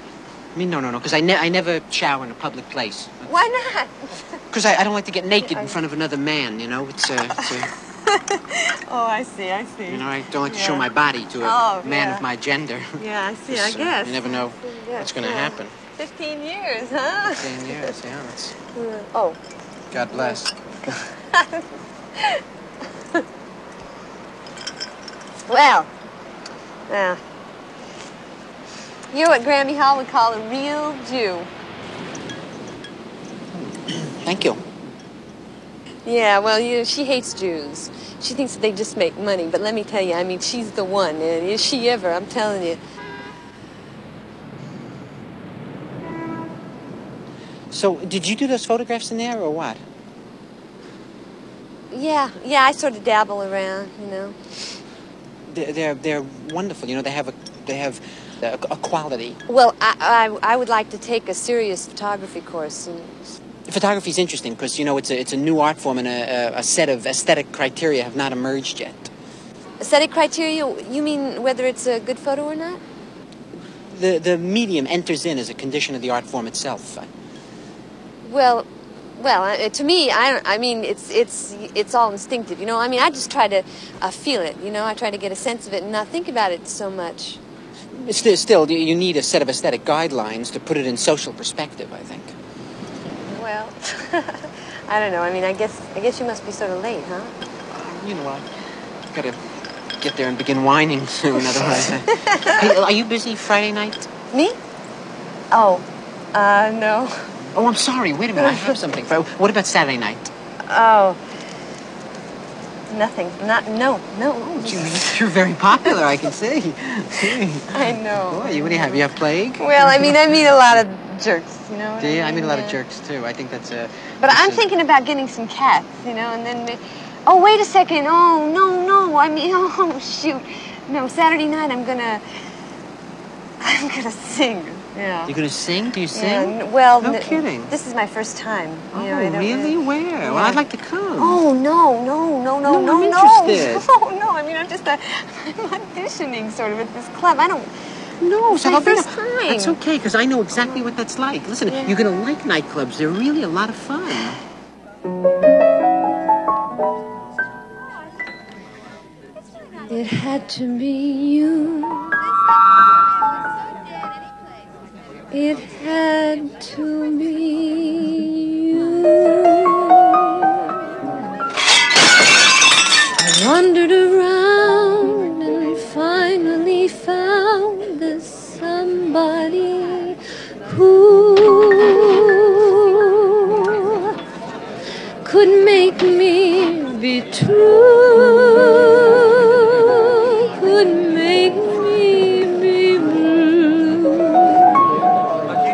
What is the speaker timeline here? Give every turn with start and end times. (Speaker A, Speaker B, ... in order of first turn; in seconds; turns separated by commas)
Speaker A: 0.6-3.3, Speaker B: 3.2-4.0, Speaker A: 4.5-7.7, Speaker B: 5.4-5.8, Speaker B: 8.1-10.9, Speaker A: 9.9-15.8, Speaker B: 11.4-12.2, Speaker B: 13.0-17.4, Speaker A: 17.3-18.6, Speaker B: 18.7-19.4, Speaker A: 19.9-20.5, Speaker B: 20.1-20.4, Speaker B: 21.2-22.4, Speaker B: 25.5-25.9, Speaker B: 26.9-27.2, Speaker B: 29.1-31.5, Speaker A: 33.9-34.6, Speaker B: 36.1-42.8, Speaker A: 47.7-49.8, Speaker B: 51.9-54.4, Speaker A: 55.5-59.4, Speaker B: 59.5-63.4, Speaker A: 63.7-69.1, Speaker B: 69.8-72.8, Speaker A: 73.9-77.1, Speaker B: 78.2-78.7, Speaker B: 79.2-87.4, Speaker A: 87.9-92.3, Speaker B: 93.3-97.3, Speaker A: 97.7-98.5, Speaker A: 99.1-99.4, Speaker A: 100.0-104.1, Speaker B: 105.5-107.2, Speaker A: 107.5-110.3, Speaker B: 108.4-108.8, Speaker B: 110.7-111.2, Speaker B: 112.9-115.1, Speaker A: 114.6-120.3, Speaker B: 117.7-119.1, Speaker B: 119.6-122.8, Speaker A: 122.0-124.7, Speaker B: 124.2-132.2, Speaker B: 133.6-135.3, Speaker A: 135.3-137.7, Speaker B: 136.1-140.6, Speaker A: 138.9-141.4, Speaker B: 141.2-147.7, Speaker A: 142.7-143.9, Speaker A: 148.2-154.4, Speaker B: 148.5-149.8, Speaker B: 150.5-150.8, Speaker B: 151.7-152.0, Speaker B: 159.9-160.4, Speaker C: 160.0-162.1, Speaker B: 165.3-166.1, Speaker C: 165.6-170.2, Speaker C: 173.2-184.0, Speaker C: 185.2-194.8